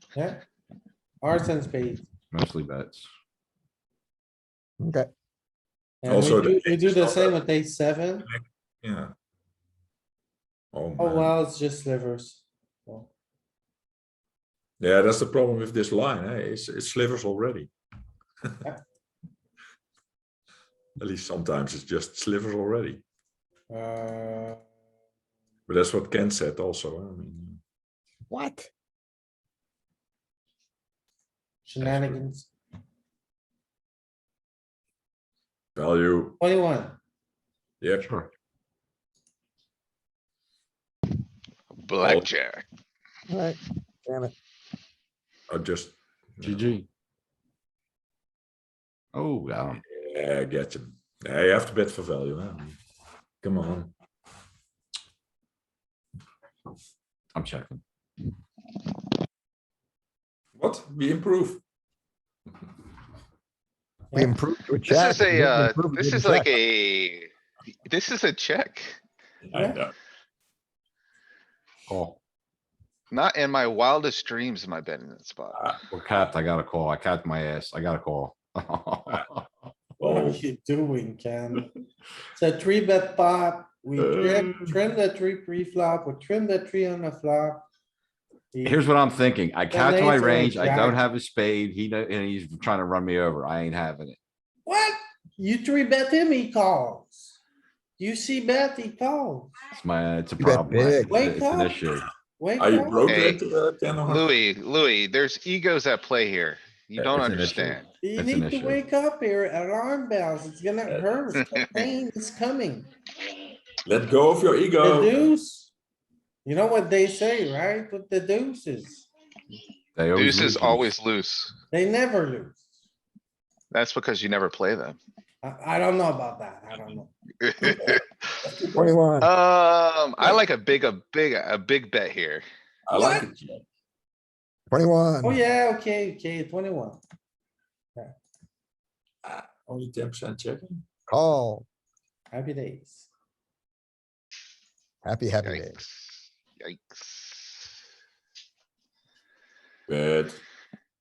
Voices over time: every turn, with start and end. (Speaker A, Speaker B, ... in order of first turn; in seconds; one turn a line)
Speaker A: 0.1-0.4
Speaker A: 1.2-2.1
Speaker B: 2.3-3.1
Speaker C: 4.8-5.1
Speaker A: 6.0-8.3
Speaker D: 6.1-7.4
Speaker D: 8.3-9.1
Speaker D: 10.7-11.3
Speaker A: 11.0-13.1
Speaker D: 14.8-17.7
Speaker D: 21.0-23.0
Speaker A: 23.7-24.6
Speaker D: 25.7-27.6
Speaker C: 28.3-28.7
Speaker A: 31.6-32.5
Speaker B: 31.8-32.2
Speaker D: 35.8-36.4
Speaker A: 36.4-37.0
Speaker D: 37.8-38.1
Speaker B: 38.0-38.3
Speaker E: 41.7-42.6
Speaker D: 42.0-42.3
Speaker C: 43.3-44.3
Speaker D: 45.5-46.7
Speaker B: 46.4-46.9
Speaker B: 49.1-49.8
Speaker D: 49.9-52.8
Speaker D: 53.4-53.9
Speaker B: 57.4-57.8
Speaker D: 60.6-61.6
Speaker A: 64.1-64.4
Speaker C: 64.1-66.5
Speaker E: 64.9-67.3
Speaker E: 67.9-69.0
Speaker D: 69.4-69.9
Speaker A: 69.5-69.8
Speaker B: 71.9-72.2
Speaker E: 73.1-75.6
Speaker D: 75.5-76.2
Speaker B: 75.9-79.5
Speaker D: 80.0-80.4
Speaker A: 80.0-81.7
Speaker A: 82.4-87.7
Speaker D: 84.0-84.7
Speaker A: 88.5-89.0
Speaker B: 88.6-94.2
Speaker A: 89.7-91.0
Speaker A: 94.7-97.4
Speaker A: 98.0-99.6
Speaker B: 99.8-102.1
Speaker C: 100.4-101.2
Speaker A: 101.1-101.8
Speaker A: 102.4-103.0
Speaker D: 102.6-104.3
Speaker E: 103.1-103.4
Speaker E: 104.0-107.9
Speaker D: 107.0-107.8
Speaker A: 108.0-112.9
Speaker B: 108.2-108.8
Speaker D: 113.9-115.2
Speaker A: 114.8-115.7
Speaker A: 116.5-119.1
Speaker B: 120.0-120.9
Speaker E: 120.2-121.6
Speaker A: 121.7-122.7
Speaker E: 123.7-125.0
Speaker A: 125.4-127.1
Speaker E: 127.4-128.0
Speaker D: 128.5-128.9
Speaker C: 128.8-129.3
Speaker E: 129.2-132.5
Speaker D: 132.9-133.7
Speaker C: 134.7-135.4
Speaker A: 135.2-137.0
Speaker D: 139.2-140.8
Speaker C: 141.1-141.7
Speaker A: 142.3-143.1
Speaker C: 145.0-145.8
Speaker E: 145.4-147.7
Speaker D: 149.9-150.4